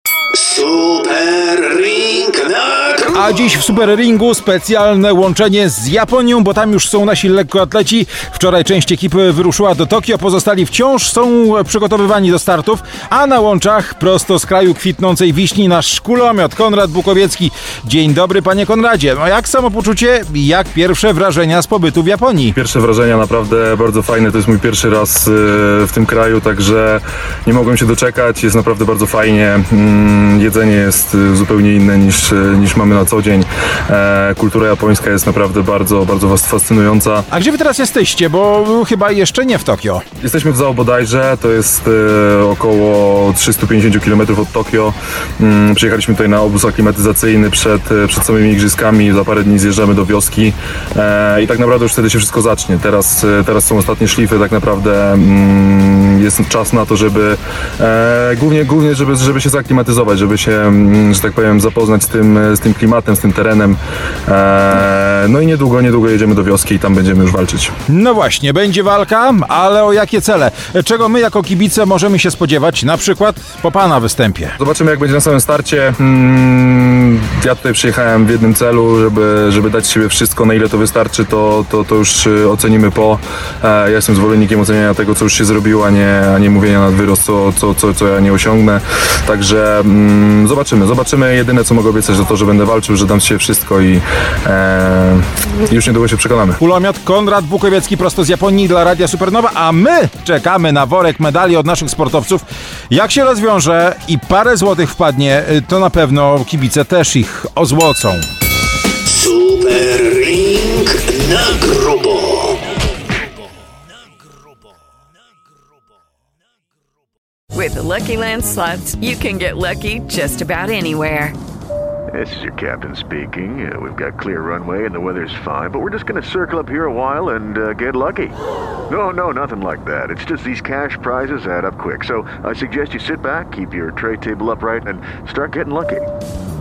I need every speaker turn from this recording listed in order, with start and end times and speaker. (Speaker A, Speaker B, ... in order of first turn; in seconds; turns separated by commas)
Speaker A: 0.3-3.1, Speaker B: 3.1-22.6, Speaker C: 22.5-37.3, Speaker B: 37.3-40.0, Speaker C: 40.2-67.7, Speaker B: 67.9-74.5, Speaker C: 74.6-96.6, Speaker B: 96.6-108.2, Speaker A: 109.1-112.6, Speaker D: 117.5-121.3, Speaker E: 122.1-128.3, Speaker E: 128.9-136.1